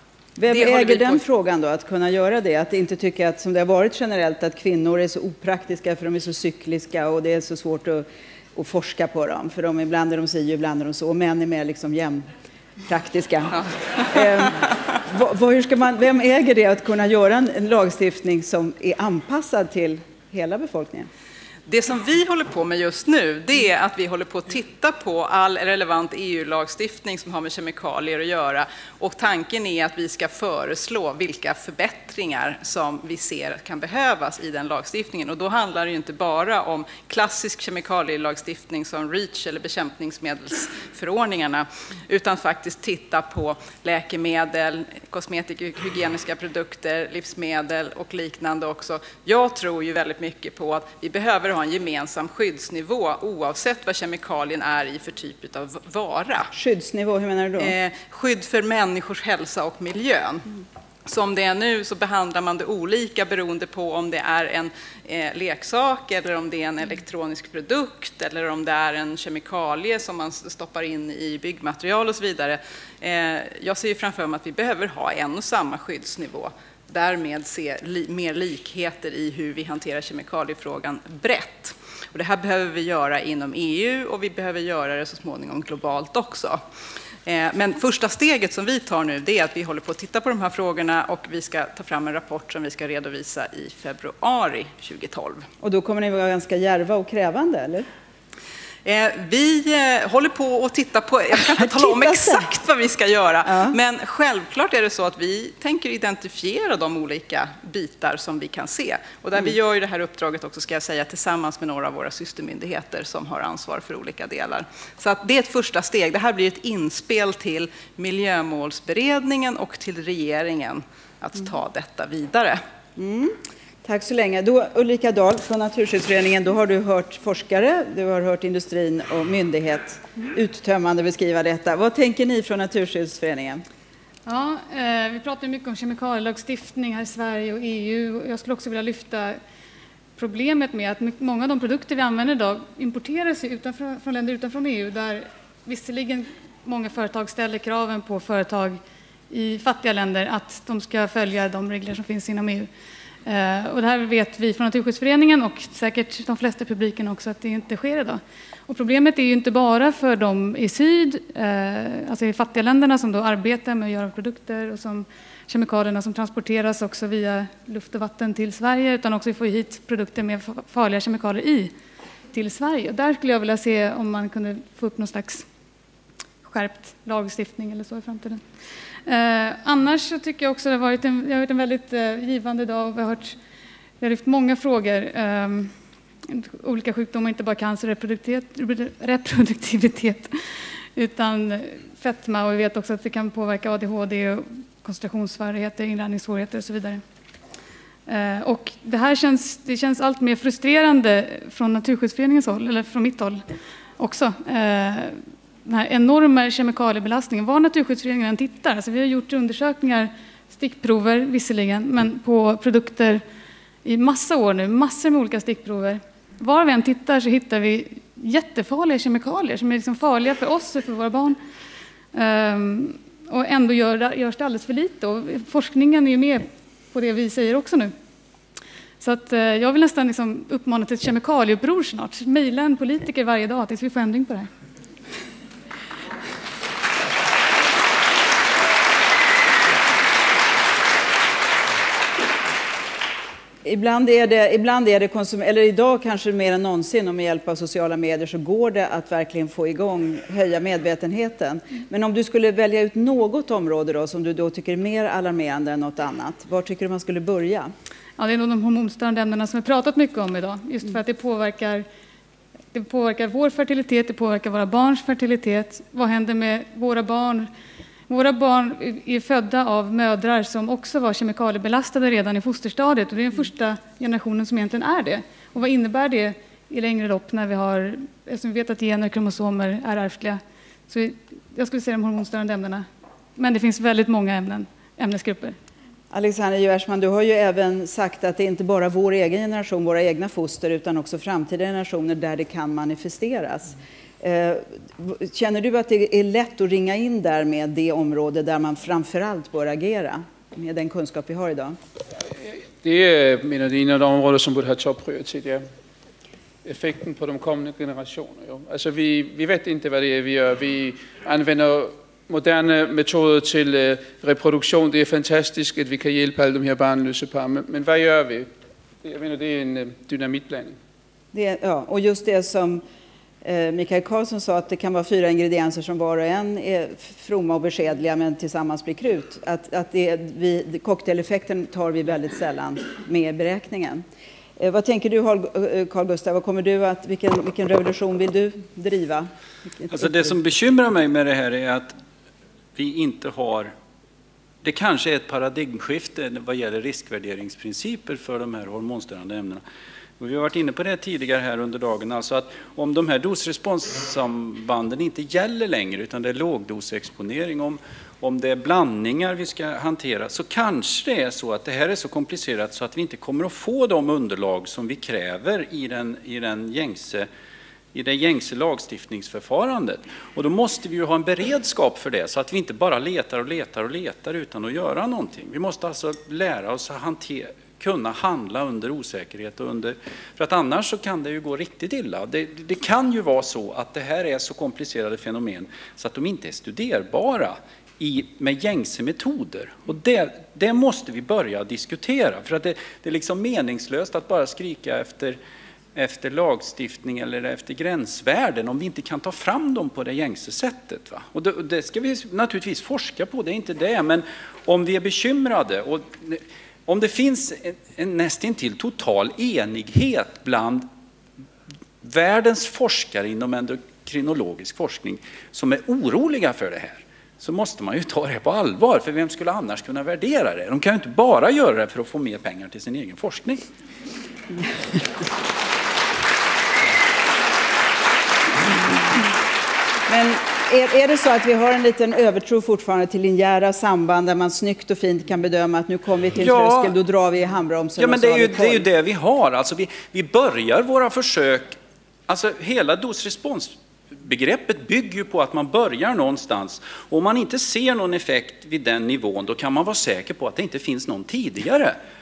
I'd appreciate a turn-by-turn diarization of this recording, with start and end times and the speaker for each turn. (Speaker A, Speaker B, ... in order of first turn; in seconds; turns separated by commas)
Speaker A: 0.4-12.3, Speaker B: 0.5-1.2, Speaker A: 12.9-21.1, Speaker B: 21.6-56.5, Speaker A: 56.5-57.7, Speaker B: 57.6-60.5, Speaker B: 61.0-86.6, Speaker B: 87.2-95.5, Speaker A: 95.6-97.9, Speaker B: 98.8-122.6, Speaker A: 101.5-102.5, Speaker A: 103.5-103.8, Speaker A: 123.0-133.6, Speaker C: 134.2-139.4, Speaker C: 140.2-152.7, Speaker C: 153.2-171.7, Speaker C: 172.3-175.4, Speaker C: 176.4-178.4, Speaker C: 179.1-183.4, Speaker C: 184.0-185.7, Speaker C: 186.2-190.3, Speaker C: 190.9-197.0, Speaker C: 198.1-203.4, Speaker C: 204.0-213.2, Speaker C: 213.8-221.4, Speaker C: 222.1-227.9, Speaker C: 229.0-234.5, Speaker A: 243.6-257.7, Speaker C: 258.2-261.8, Speaker C: 262.7-267.5, Speaker C: 268.1-285.6, Speaker A: 286.1-301.8, Speaker D: 302.4-305.6, Speaker D: 306.6-318.5, Speaker D: 319.0-320.8, Speaker A: 321.3-322.8, Speaker A: 323.4-334.0, Speaker A: 334.6-340.3, Speaker E: 339.9-342.0, Speaker E: 342.8-343.7, Speaker E: 344.6-349.6, Speaker E: 350.2-367.3, Speaker E: 367.9-395.4, Speaker E: 395.9-410.9, Speaker E: 412.0-423.6, Speaker A: 430.1-438.8, Speaker E: 436.4-436.9, Speaker E: 438.0-441.8, Speaker E: 442.3-451.9